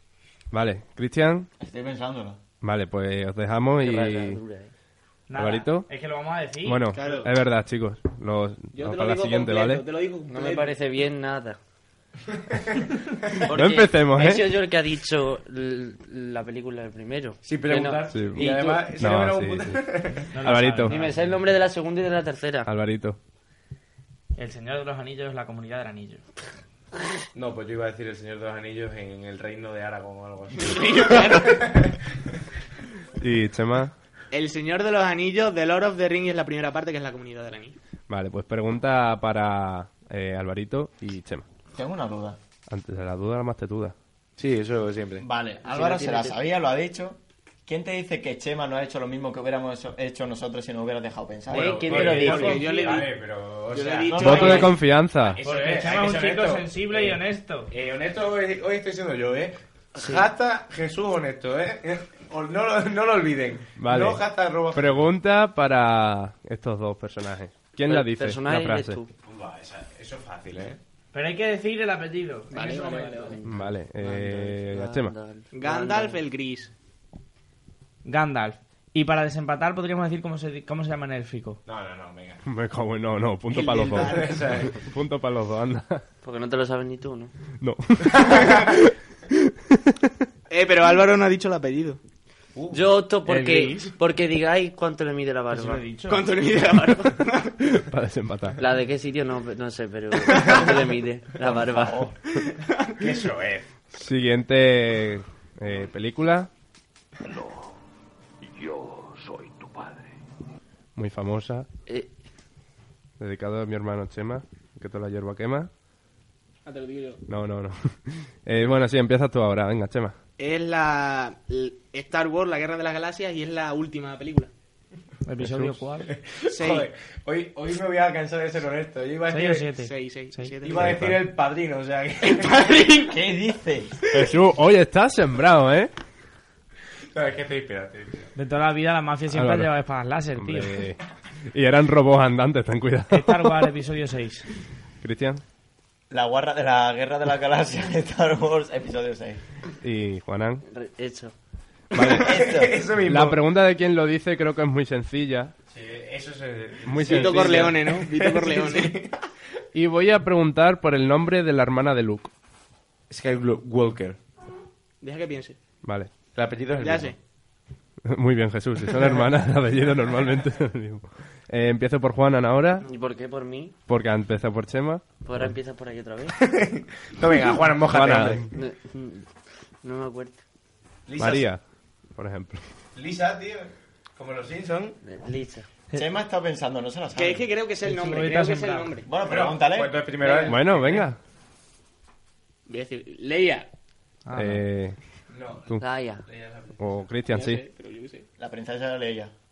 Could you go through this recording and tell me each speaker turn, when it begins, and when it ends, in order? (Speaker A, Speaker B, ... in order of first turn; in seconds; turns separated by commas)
Speaker A: 0.5-1.5, Speaker B: 1.6-2.4, Speaker A: 2.6-4.4, Speaker C: 3.8-4.7, Speaker D: 5.3-6.9, Speaker A: 5.4-5.9, Speaker A: 6.6-9.9, Speaker E: 6.9-7.3, Speaker E: 8.7-10.8, Speaker C: 10.3-11.6, Speaker C: 13.5-18.9, Speaker A: 13.5-14.5, Speaker F: 17.4-20.4, Speaker A: 18.1-19.8, Speaker D: 20.3-21.0, Speaker A: 20.4-21.0, Speaker C: 20.9-22.7, Speaker A: 22.7-23.2, Speaker D: 24.4-26.2, Speaker F: 27.3-32.0, Speaker E: 30.6-31.7, Speaker A: 33.2-33.9, Speaker E: 34.3-37.8, Speaker A: 38.1-41.5, Speaker B: 41.7-42.4, Speaker A: 42.7-44.0, Speaker F: 44.4-45.2, Speaker B: 45.2-52.0, Speaker C: 45.6-46.4, Speaker C: 51.5-52.7, Speaker F: 51.5-57.2, Speaker E: 51.9-53.1, Speaker D: 51.9-52.7, Speaker E: 53.7-54.8, Speaker A: 54.1-55.4, Speaker B: 54.2-54.6, Speaker D: 55.4-57.7, Speaker F: 57.7-65.0, Speaker C: 60.0-60.3, Speaker A: 63.8-69.0, Speaker C: 67.9-69.1, Speaker F: 69.2-70.8, Speaker D: 71.1-73.3, Speaker E: 72.5-73.4, Speaker C: 73.3-76.2, Speaker A: 73.5-75.2, Speaker E: 75.5-76.7, Speaker D: 78.0-81.6, Speaker F: 81.7-82.4, Speaker A: 82.5-86.0, Speaker E: 83.5-84.6, Speaker F: 83.9-84.8, Speaker C: 86.2-87.3, Speaker A: 87.6-89.8, Speaker E: 90.5-92.0, Speaker F: 92.5-92.9, Speaker C: 92.7-95.9, Speaker D: 93.3-93.9, Speaker D: 95.5-96.3, Speaker E: 96.1-97.5, Speaker A: 97.8-98.6, Speaker C: 98.6-102.1, Speaker E: 100.3-100.7, Speaker B: 101.4-102.1, Speaker E: 102.3-103.2, Speaker F: 103.0-103.7, Speaker A: 103.9-106.5, Speaker A: 111.0-111.7, Speaker A: 113.2-115.7, Speaker E: 116.7-117.2, Speaker A: 117.3-120.2, Speaker E: 120.4-124.5, Speaker D: 125.2-126.1, Speaker A: 125.4-125.8, Speaker F: 126.1-129.7, Speaker E: 126.5-126.9, Speaker D: 129.3-130.5, Speaker E: 129.8-130.9, Speaker F: 130.6-132.8, Speaker A: 130.8-131.3, Speaker E: 132.3-133.2, Speaker B: 133.0-134.0, Speaker A: 134.1-135.9, Speaker F: 137.1-138.3, Speaker D: 138.3-140.8, Speaker A: 139.3-139.7, Speaker A: 140.4-141.0, Speaker A: 141.5-143.7, Speaker D: 143.1-144.5, Speaker A: 145.0-145.4, Speaker B: 146.1-149.4, Speaker A: 149.8-150.6, Speaker C: 150.7-151.3, Speaker A: 151.9-152.3, Speaker F: 152.2-153.4, Speaker B: 152.2-152.8, Speaker A: 153.0-155.5, Speaker F: 155.7-159.1, Speaker A: 156.9-157.8, Speaker E: 157.0-159.1, Speaker A: 159.7-162.3, Speaker F: 163.1-164.2, Speaker E: 165.0-165.6, Speaker A: 165.8-166.2, Speaker F: 166.3-167.2, Speaker E: 166.8-167.2, Speaker A: 168.1-172.8, Speaker C: 172.8-173.8, Speaker A: 173.9-175.5, Speaker C: 175.2-176.4, Speaker F: 176.5-178.5, Speaker A: 177.9-178.5, Speaker C: 178.5-180.4, Speaker F: 181.1-181.5, Speaker A: 181.2-181.6, Speaker A: 182.2-182.6, Speaker F: 182.9-185.0, Speaker C: 185.0-185.7, Speaker B: 185.9-187.5, Speaker E: 187.1-189.1, Speaker D: 187.8-188.9, Speaker B: 189.1-190.0, Speaker F: 189.2-191.1, Speaker E: 190.2-190.6, Speaker A: 190.5-191.2, Speaker E: 192.7-193.7, Speaker D: 194.2-194.7, Speaker A: 194.3-195.0, Speaker F: 195.3-196.9, Speaker C: 195.8-196.2, Speaker A: 196.8-197.6, Speaker E: 197.3-198.2, Speaker B: 198.4-199.3